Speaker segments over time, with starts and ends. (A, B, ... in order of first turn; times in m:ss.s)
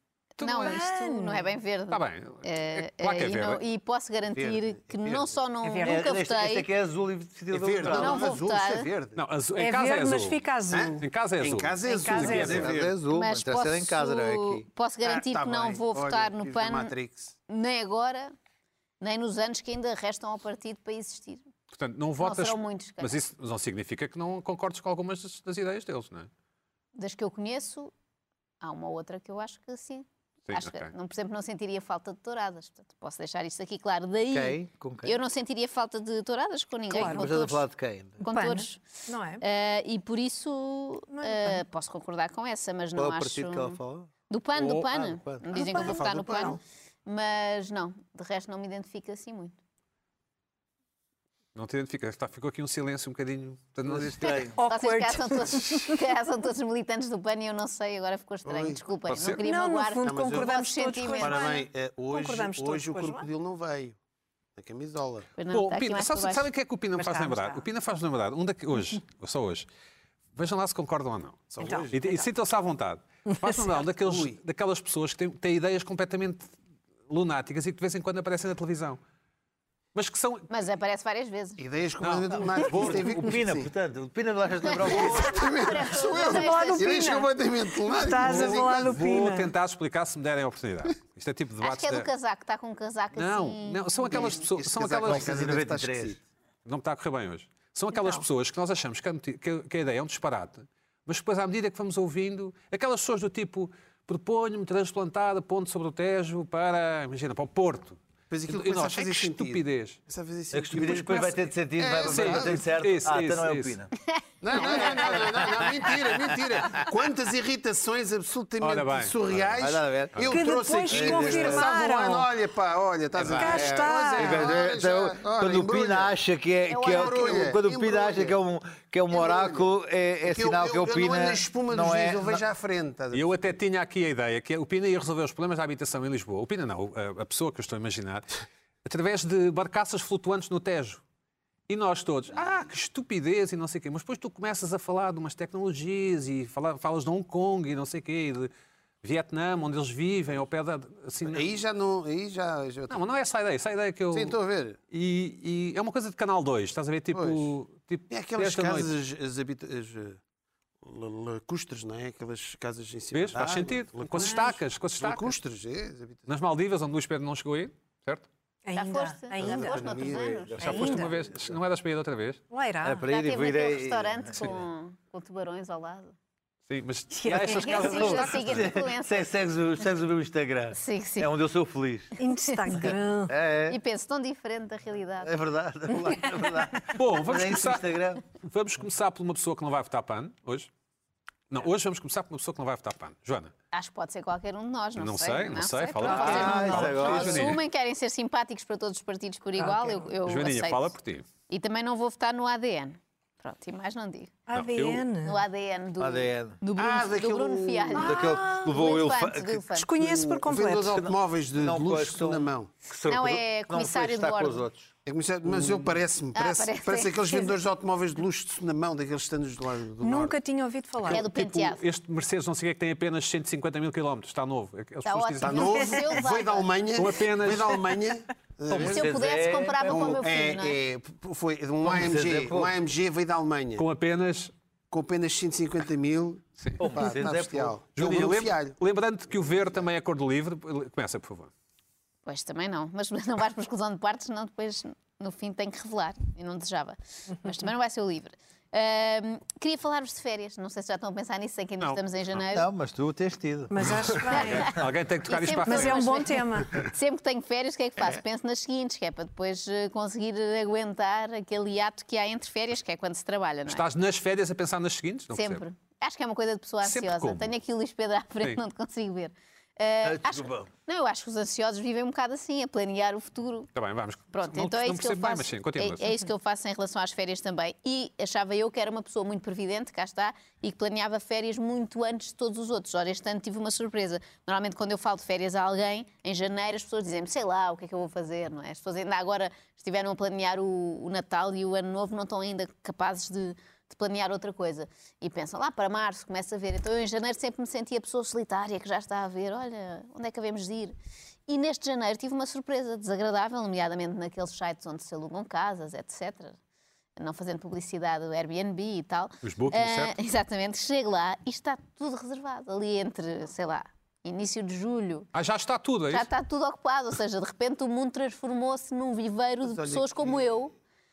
0:00.4-0:00.8 A
0:00.4-0:06.7 B
0:00.6-0:01.6 C
0:01.9-0:03.6 A
0:04.3-0:05.4 D
0:05.6-0:06.0 C
0:05.8-0:08.4 E
0:07.5-0:09.2 D
0:07.8-0:08.9 B
0:09.2-0:10.4 A
0:09.6-0:11.0 C
0:10.7-0:13.0 D
0:11.0-0:12.7 A
0:11.8-0:12.7 C
0:12.4-0:14.7 E
0:13.0-0:16.9 B
0:15.0-0:17.4 D
0:17.5-0:18.3 B
0:19.0-0:21.5 B
0:21.7-0:26.3 A
0:22.2-0:23.2 B
0:26.9-0:27.9 B
0:28.6-0:37.6 B
0:30.5-0:30.9 A
0:34.3-0:35.2 E
0:36.9-0:37.3 C
0:36.9-0:38.2 E
0:38.2-0:38.8 B
0:38.3-0:39.4 C
0:39.4-0:43.8 B
0:41.1-0:41.6 C
0:42.9-0:45.4 E
0:44.3-0:49.5 B
0:45.5-0:46.6 C
0:45.6-0:46.6 D
0:51.5-0:54.3 A
0:53.8-0:54.6 E
0:54.2-1:01.5 B
0:54.5-0:56.1 C
0:58.4-0:58.8 D
0:59.1-0:59.4 A
0:59.4-1:03.3 C
1:00.0-1:00.5 D
1:01.2-1:04.0 D
1:04.6-1:05.3 D
1:05.4-1:06.4 B
1:05.5-1:09.7 A
1:07.0-1:07.6 C
1:10.3-1:16.5 A
1:11.5-1:12.2 D
1:11.6-1:11.9 C
1:13.9-1:14.4 D
1:17.1-1:19.0 A
1:19.9-1:20.5 A
1:20.5-1:21.6 B
1:21.6-1:23.7 D
1:22.0-1:23.2 A
1:22.6-1:25.5 E
1:24.7-1:27.1 B
1:24.9-1:29.0 D
1:26.0-1:29.5 C
1:28.2-1:32.1 A
1:31.6-1:34.3 B
1:33.1-1:35.4 A
1:34.1-1:36.2 D
1:35.0-1:36.2 E
1:36.6-1:50.0 A
1:37.9-1:38.2 C
1:48.3-1:52.6 D
1:50.5-1:53.9 E
1:52.0-1:53.8 A
1:54.4-2:06.1 D
1:54.6-1:56.9 E
1:54.6-1:55.2 B
1:58.6-1:59.5 A
1:59.6-2:00.3 E
2:00.3-2:02.3 C
2:00.9-2:01.8 E
2:03.2-2:03.6 A
2:03.2-2:12.4 E
2:03.4-2:04.5 C
2:06.7-2:08.4 D
2:06.9-2:07.3 B
2:09.1-2:09.7 D
2:10.2-2:13.3 D
2:13.1-2:18.2 A
2:18.8-2:21.0 A
2:21.7-2:28.5 A
2:29.0-2:31.5 A
2:31.2-2:33.0 D
2:32.9-2:34.4 A
2:34.1-2:34.8 D
2:34.9-2:38.9 A
2:37.1-2:37.5 D
2:38.1-2:40.2 D
2:40.8-2:44.4 D
2:43.1-2:45.4 A
2:44.2-2:44.6 C
2:45.0-2:46.3 D
2:46.3-2:48.3 A
2:48.6-2:51.1 C
2:48.8-2:50.9 B
2:49.4-2:51.0 D
2:50.3-2:51.0 E
2:50.6-2:52.4 A
2:52.5-2:53.0 C
2:52.8-2:54.6 E
2:53.1-2:56.1 B
2:56.7-2:58.8 A
2:57.1-2:58.1 C
2:57.3-3:02.1 E
2:57.7-2:59.2 B
3:00.7-3:01.3 B
3:02.2-3:03.3 C
3:02.2-3:02.9 B
3:02.8-3:03.8 E
3:03.7-3:05.3 B
3:05.2-3:08.2 E
3:05.9-3:06.2 B
3:06.9-3:10.7 A
3:11.5-3:13.5 A
3:13.7-3:20.9 B
3:15.0-3:17.6 A
3:16.0-3:17.0 C
3:16.0-3:17.6 E
3:19.6-3:20.1 C
3:20.2-3:21.3 A
3:21.5-3:24.4 B
3:24.4-3:25.4 C
3:24.5-3:25.1 A
3:25.2-3:29.9 B
3:26.0-3:26.6 E
3:26.8-3:28.1 D
3:27.9-3:28.8 C
3:27.9-3:34.9 E
3:29.7-3:31.0 C
3:30.2-3:32.7 D
3:33.1-3:34.6 B
3:35.0-3:40.3 D
3:36.3-3:37.6 B
3:40.0-3:41.2 C
3:41.1-3:41.8 B
3:41.1-3:45.8 A
3:45.0-3:46.7 B
3:45.4-3:49.2 D
3:46.9-3:47.8 A
3:48.7-3:50.3 E
3:48.7-3:50.8 B
3:49.9-3:53.8 D
3:51.8-3:52.8 E
3:53.8-3:54.5 A
3:54.9-3:58.8 D
3:56.6-3:56.8 A
3:56.8-3:57.8 E
3:58.0-4:01.5 A
4:02.2-4:12.7 B
4:11.8-4:12.4 A
4:12.5-4:14.4 E
4:13.7-4:14.8 C
4:14.3-4:16.3 A
4:14.3-4:23.8 B
4:15.6-4:16.8 C
4:23.7-4:25.6 A
4:25.3-4:33.7 B
4:26.8-4:27.5 A
4:30.0-4:30.7 E
4:33.7-4:36.1 A
4:34.3-5:00.9 B
5:01.5-5:06.6 B
5:07.2-5:15.3 B
5:09.4-5:10.2 A
5:15.3-5:16.3 A
5:16.1-5:20.7 B
5:19.6-5:20.5 D